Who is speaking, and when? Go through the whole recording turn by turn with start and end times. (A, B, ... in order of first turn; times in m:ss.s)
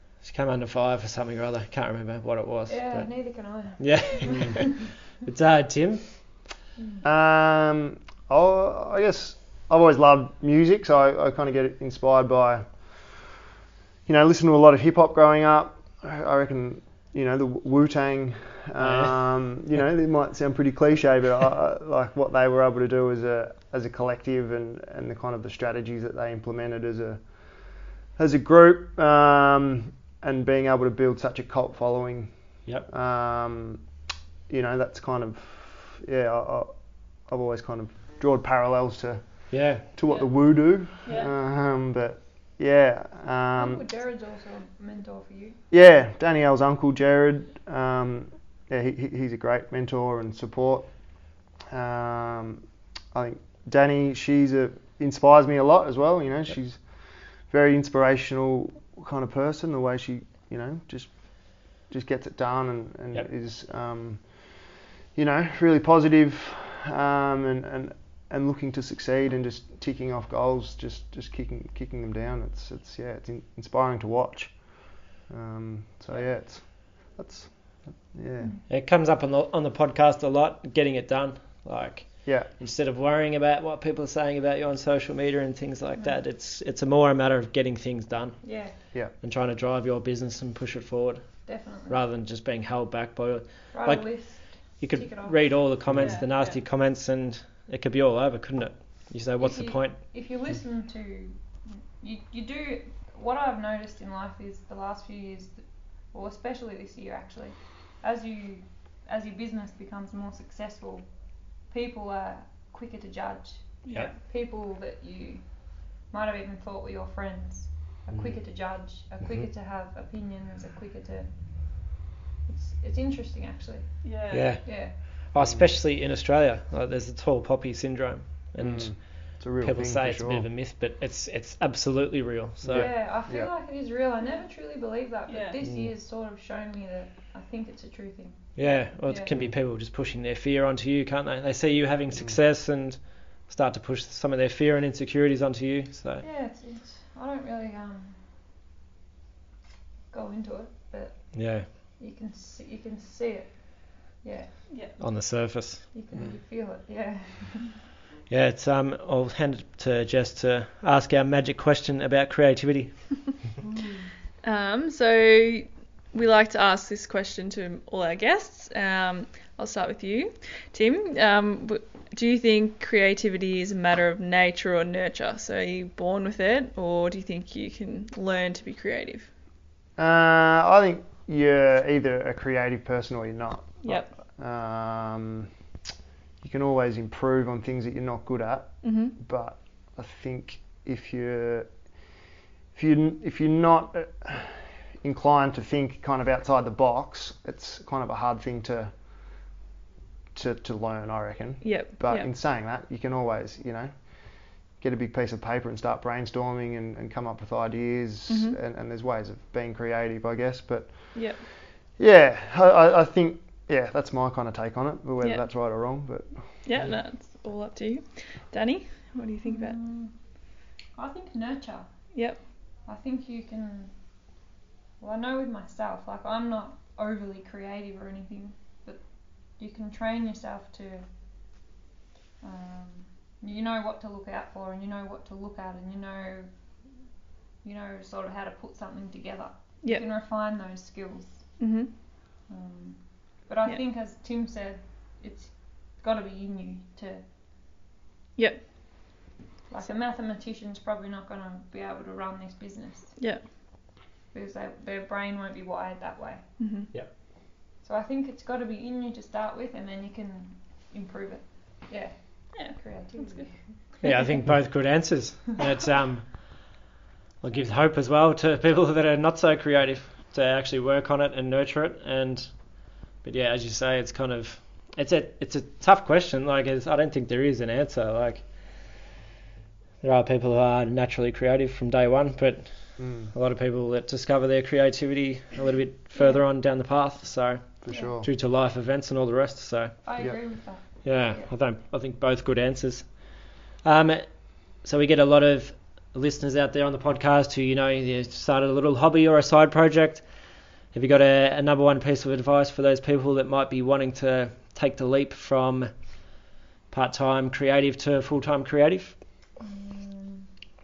0:00.2-0:06.2 A
0:02.7-0:04.6 B
0:06.8-0:07.0 B
0:07.0-0:13.2 C
0:14.1-0:27.2 C
0:18.8-0:19.3 A
0:28.2-0:33.8 C
0:34.5-0:43.8 C
0:39.5-0:39.9 A
0:40.0-0:40.3 D
0:41.0-0:41.3 D
0:43.6-0:45.6 B
0:45.7-0:50.9 C
0:51.7-1:18.5 C
1:18.7-1:40.0 A
1:22.2-1:22.5 C
1:28.4-1:28.8 B
1:31.5-1:32.0 B
1:33.7-1:35.5 B
1:35.9-1:36.2 C
1:35.9-1:36.6 D
1:39.4-2:01.3 B
1:53.8-1:54.2 D
2:02.5-2:05.0 B
2:04.0-2:04.6 D
2:04.3-2:13.0 A
2:05.4-2:05.7 C
2:08.6-2:10.5 C
2:12.6-2:13.5 C
2:12.7-2:19.3 B
2:15.3-2:15.6 D
2:18.6-2:26.2 A
2:26.2-2:28.2 B
2:30.1-2:34.6 B
2:31.3-2:31.7 A
2:34.7-2:35.0 D
2:35.0-2:35.9 A
2:35.9-2:37.8 B
2:38.3-2:43.4 A
2:44.4-2:59.3 D
3:00.0-3:05.5 C
3:03.8-3:04.1 D
3:06.4-3:11.9 C
3:08.8-3:09.2 D
3:12.7-3:19.0 C
3:20.3-3:31.4 C
3:21.6-3:22.3 D
3:28.3-3:28.6 D
3:31.1-3:31.4 D
3:32.0-3:36.9 C
3:35.2-3:35.5 D
3:36.6-3:39.8 D
3:39.4-3:40.2 B
3:41.0-3:44.0 B
3:42.1-3:42.4 D
3:45.0-3:51.1 B
3:52.4-3:56.5 B
3:57.6-4:01.6 B
4:01.6-4:01.9 D
4:02.5-4:07.2 B
4:08.4-4:08.7 D
4:09.7-4:13.2 B
4:13.2-4:13.4 D
4:14.3-4:16.4 B
4:16.6-4:16.9 D
4:17.8-4:23.6 B
4:22.6-4:23.5 D
4:24.0-4:26.8 A
4:27.4-4:38.6 A
4:40.0-4:50.0 A
4:43.0-4:43.3 C
4:46.2-4:46.4 B
4:47.8-4:48.3 C
4:47.9-4:48.2 B
4:50.0-4:51.5 B
4:51.0-5:00.3 A
5:00.9-5:05.9 A
5:06.9-5:09.2 A
5:09.6-5:10.5 B